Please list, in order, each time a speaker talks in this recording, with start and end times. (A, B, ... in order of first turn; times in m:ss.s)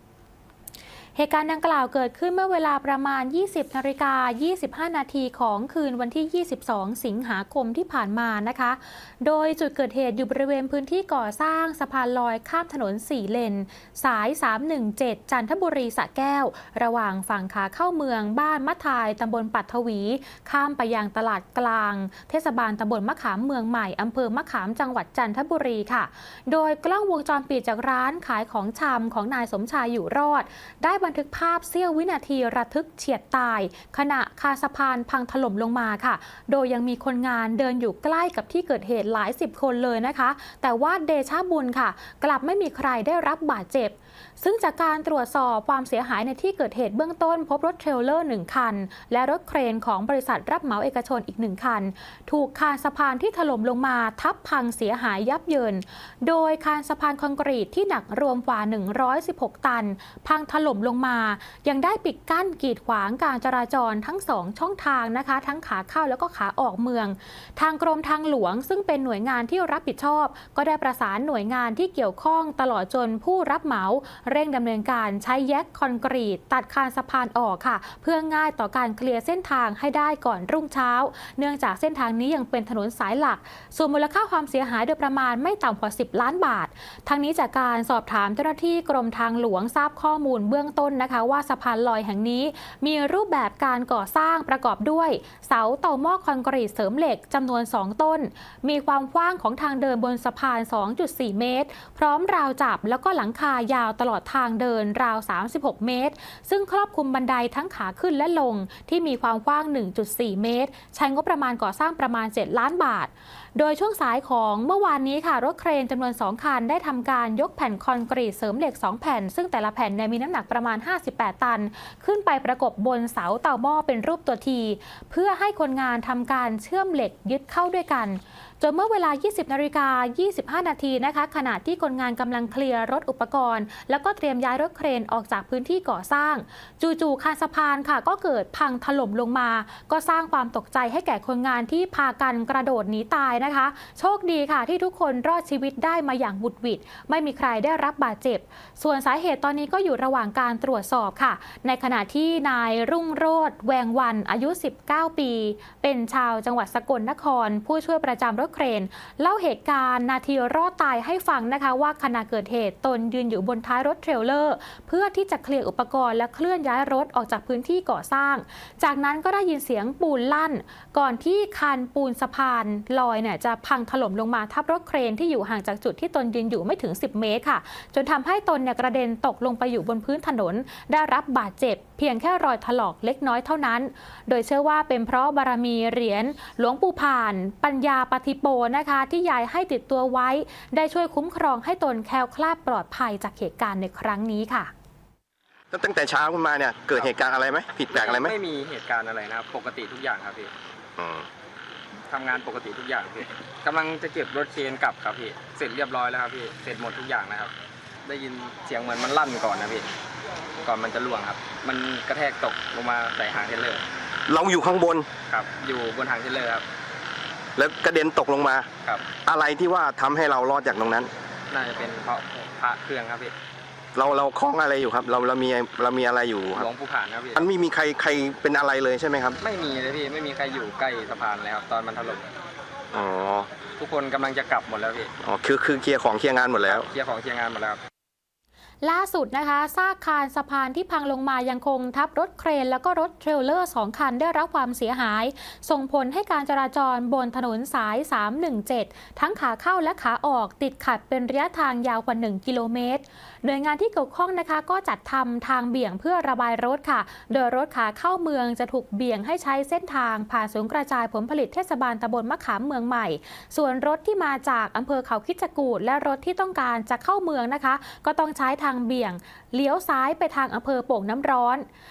0:01.2-3:14.7 A
3:15.7-3:18.3 B
3:17.9-3:20.5 C
3:21.0-3:21.3 B
3:22.1-3:27.5 C
3:28.0-3:29.9 C
3:30.6-3:33.8 C
3:34.3-3:35.1 B
3:35.3-3:36.6 C
3:37.6-3:38.7 B
3:39.2-3:41.1 B
3:41.5-3:43.3 C
3:43.9-3:46.7 B
3:46.5-3:47.5 C
3:47.3-3:49.4 B
3:49.4-3:52.2 C
3:52.9-3:53.5 B
3:53.8-3:55.1 C
3:55.2-3:56.8 B
3:56.7-3:57.8 C
3:58.8-4:31.6 A